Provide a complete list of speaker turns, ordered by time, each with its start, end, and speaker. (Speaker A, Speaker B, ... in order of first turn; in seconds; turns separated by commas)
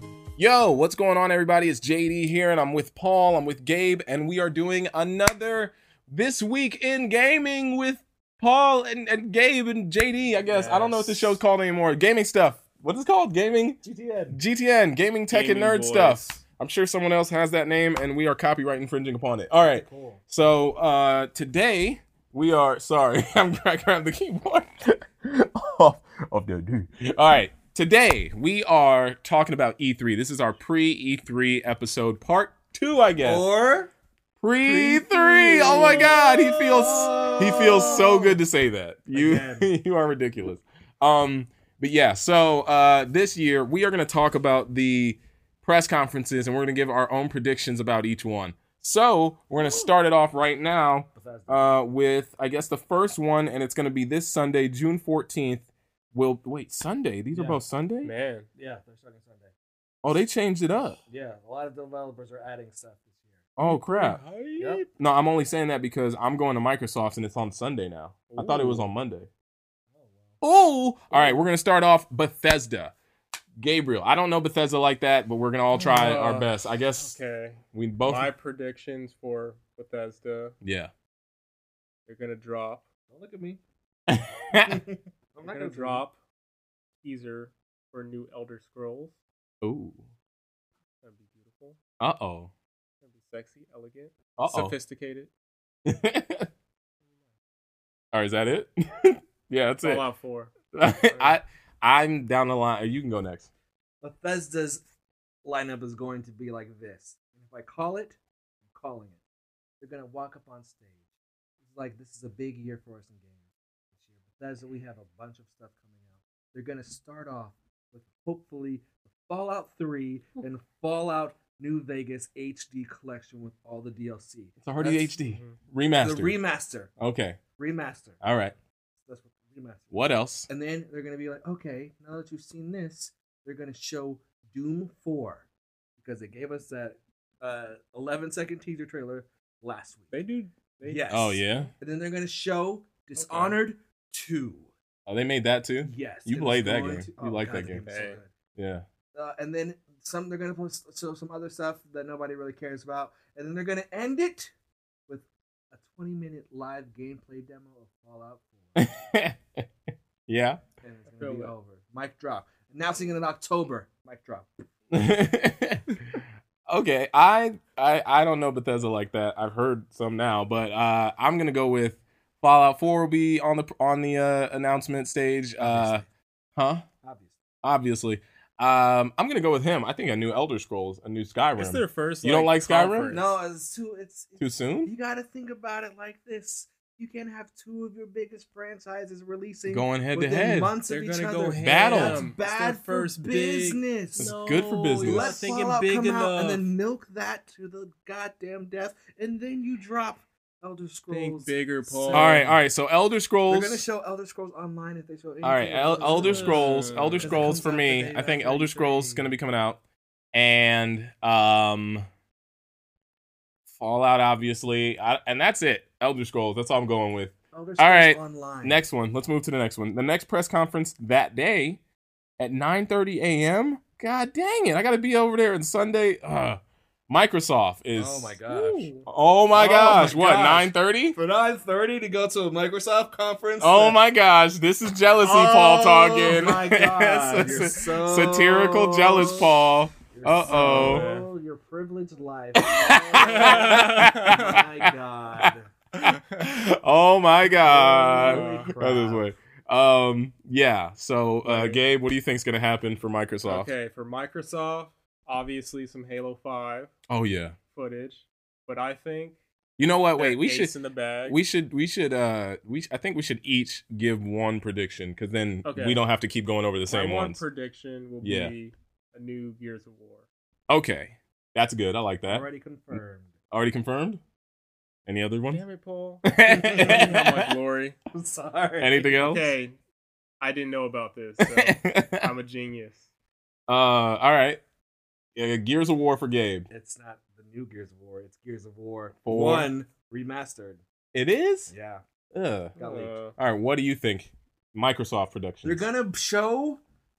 Speaker A: 0.4-13.8, Speaker B: 10.4-11.3, Speaker C: 13.8-14.4, Speaker A: 14.3-33.4, Speaker B: 15.3-16.4, Speaker C: 19.6-20.2, Speaker C: 33.2-33.9, Speaker A: 34.4-58.1, Speaker C: 34.6-38.4, Speaker B: 35.7-36.2, Speaker C: 39.1-39.7, Speaker C: 51.1-51.6, Speaker C: 57.3-57.6, Speaker B: 58.0-58.5, Speaker C: 58.5-59.5, Speaker A: 60.0-61.0, Speaker C: 61.1-63.4, Speaker A: 63.6-64.2, Speaker B: 63.6-64.9, Speaker C: 64.6-64.8, Speaker A: 65.0-69.3, Speaker B: 68.3-68.8, Speaker C: 70.0-70.3, Speaker A: 70.4-72.9, Speaker A: 73.6-77.1, Speaker B: 75.7-80.5, Speaker A: 77.7-78.3, Speaker A: 80.6-80.9, Speaker B: 82.0-82.8, Speaker C: 83.1-83.6, Speaker A: 84.1-84.8, Speaker C: 84.7-86.0, Speaker B: 85.4-86.1, Speaker B: 87.0-89.2, Speaker A: 89.6-90.0, Speaker B: 91.0-91.8, Speaker A: 92.0-92.5, Speaker B: 93.0-95.3, Speaker A: 94.3-94.8, Speaker A: 95.8-96.5, Speaker A: 98.1-100.0, Speaker B: 99.8-100.5, Speaker A: 100.7-103.5, Speaker C: 101.1-101.4, Speaker C: 104.0-104.8, Speaker C: 105.4-108.2, Speaker C: 108.7-109.2, Speaker C: 109.8-111.0, Speaker C: 111.6-113.4, Speaker C: 114.0-125.1, Speaker A: 124.6-126.4, Speaker B: 125.2-125.6, Speaker C: 126.0-126.9, Speaker A: 127.0-127.4, Speaker C: 127.6-128.2, Speaker A: 128.2-128.5, Speaker C: 129.0-129.9, Speaker A: 129.9-130.5, Speaker C: 130.5-135.4, Speaker C: 136.0-140.2, Speaker B: 140.1-141.1, Speaker C: 140.8-144.7, Speaker A: 141.1-141.7, Speaker B: 143.2-143.6, Speaker A: 145.1-147.8, Speaker C: 145.8-148.3, Speaker B: 147.7-148.2, Speaker A: 148.6-148.8, Speaker C: 149.1-154.5, Speaker C: 155.1-158.9, Speaker A: 158.7-159.7, Speaker A: 160.3-160.6, Speaker C: 160.8-164.6, Speaker B: 161.2-161.5, Speaker A: 164.9-176.0, Speaker C: 175.6-176.1, Speaker A: 176.6-176.8, Speaker C: 177.0-177.4, Speaker A: 177.6-183.1, Speaker B: 181.6-183.3, Speaker C: 183.1-194.3, Speaker A: 184.4-184.9, Speaker A: 189.7-190.8, Speaker B: 190.8-196.6, Speaker A: 191.6-192.3, Speaker A: 194.2-195.5, Speaker C: 195.0-202.6, Speaker B: 201.1-202.5, Speaker A: 202.1-203.9, Speaker C: 203.5-209.3, Speaker A: 205.4-209.8, Speaker B: 206.1-207.4, Speaker A: 210.3-212.0, Speaker A: 213.7-221.8, Speaker C: 217.5-218.8, Speaker A: 222.4-228.3, Speaker C: 227.9-228.9, Speaker B: 228.5-229.1, Speaker A: 229.1-231.2, Speaker C: 229.5-234.0, Speaker A: 233.6-241.1, Speaker C: 235.2-239.5, Speaker C: 240.1-245.7, Speaker B: 240.4-241.3, Speaker A: 242.6-253.7, Speaker B: 243.2-244.6, Speaker C: 247.6-249.3, Speaker B: 248.1-248.7, Speaker B: 251.4-251.8, Speaker B: 253.4-256.9, Speaker A: 257.1-257.6, Speaker B: 257.7-259.4, Speaker A: 259.8-260.7, Speaker B: 260.1-261.4, Speaker A: 261.3-267.4, Speaker B: 265.6-266.0, Speaker B: 266.9-270.2, Speaker A: 268.2-268.5, Speaker A: 270.7-272.4, Speaker C: 272.3-273.3, Speaker A: 273.5-274.2, Speaker A: 275.1-275.6, Speaker B: 275.5-278.0, Speaker A: 276.2-277.5, Speaker C: 276.4-277.2, Speaker C: 278.1-279.0, Speaker A: 278.8-279.5, Speaker B: 279.0-279.8, Speaker B: 280.4-283.1, Speaker A: 281.4-282.3, Speaker A: 283.7-284.6, Speaker A: 285.4-286.7, Speaker C: 286.7-290.8, Speaker A: 289.2-289.7, Speaker A: 291.1-291.7, Speaker C: 291.7-292.0, Speaker A: 292.3-292.7, Speaker C: 292.8-293.1, Speaker B: 292.8-293.4, Speaker A: 293.4-295.8, Speaker C: 295.6-296.8